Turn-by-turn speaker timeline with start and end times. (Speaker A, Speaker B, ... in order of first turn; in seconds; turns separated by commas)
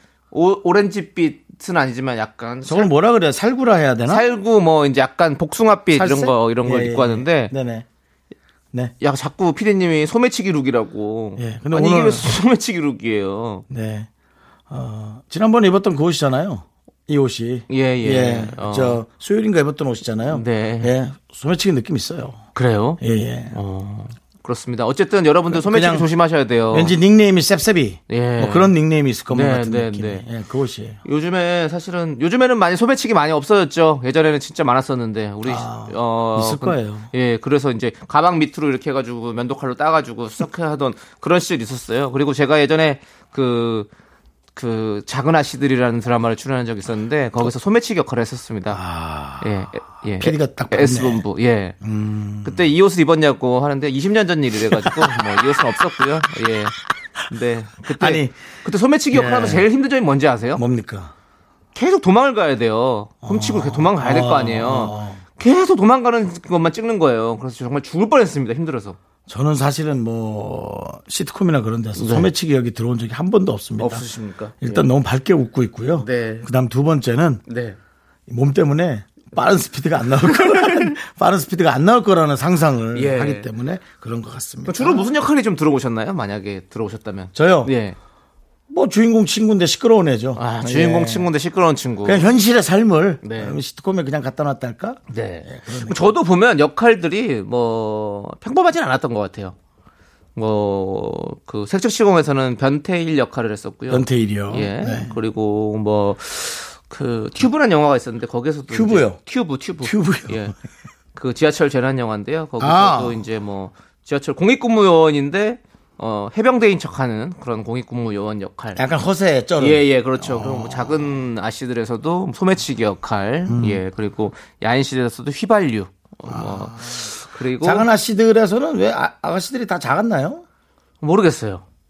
Speaker A: 0.3-2.9, Speaker B: 2.6-4.3, Speaker A: 4.1-7.5, Speaker B: 5.9-7.8, Speaker A: 9.0-13.6, Speaker B: 11.4-12.4, Speaker B: 13.7-14.1, Speaker B: 14.7-22.4, Speaker A: 17.7-19.0, Speaker A: 20.3-20.9, Speaker A: 22.5-23.0, Speaker B: 23.0-23.6, Speaker A: 23.5-26.9, Speaker B: 25.5-26.1, Speaker B: 26.7-31.0, Speaker A: 28.1-28.7, Speaker A: 29.3-30.2, Speaker A: 31.0-43.9, Speaker B: 35.4-37.1, Speaker A: 44.5-48.8, Speaker B: 48.7-49.5, Speaker A: 49.4-51.8, Speaker B: 50.2-51.2, Speaker B: 51.8-52.6, Speaker A: 52.4-56.7, Speaker B: 54.7-55.2, Speaker A: 57.3-60.6, Speaker B: 57.9-58.3, Speaker B: 59.1-59.6, Speaker B: 60.5-61.1, Speaker A: 61.7-69.0, Speaker B: 63.2-65.2, Speaker B: 69.3-74.0, Speaker A: 72.0-72.3, Speaker A: 73.8-74.8, Speaker B: 74.6-77.4, Speaker A: 76.0-76.5, Speaker A: 77.5-77.8, Speaker B: 78.3-85.1, Speaker A: 80.3-80.9, Speaker A: 82.9-83.5, Speaker A: 84.7-88.0, Speaker B: 87.3-87.7, Speaker B: 88.7-91.3, Speaker A: 90.3-92.3, Speaker B: 92.0-96.0, Speaker A: 93.2-93.6, Speaker A: 95.1-99.5, Speaker A: 100.3-110.5, Speaker B: 103.9-105.1, Speaker B: 108.7-109.2, Speaker B: 109.8-110.4, Speaker A: 111.1-118.8, Speaker B: 112.6-113.2, Speaker B: 118.8-121.2, Speaker A: 119.6-127.9, Speaker B: 123.5-123.8, Speaker B: 126.2-130.4, Speaker A: 131.0-131.6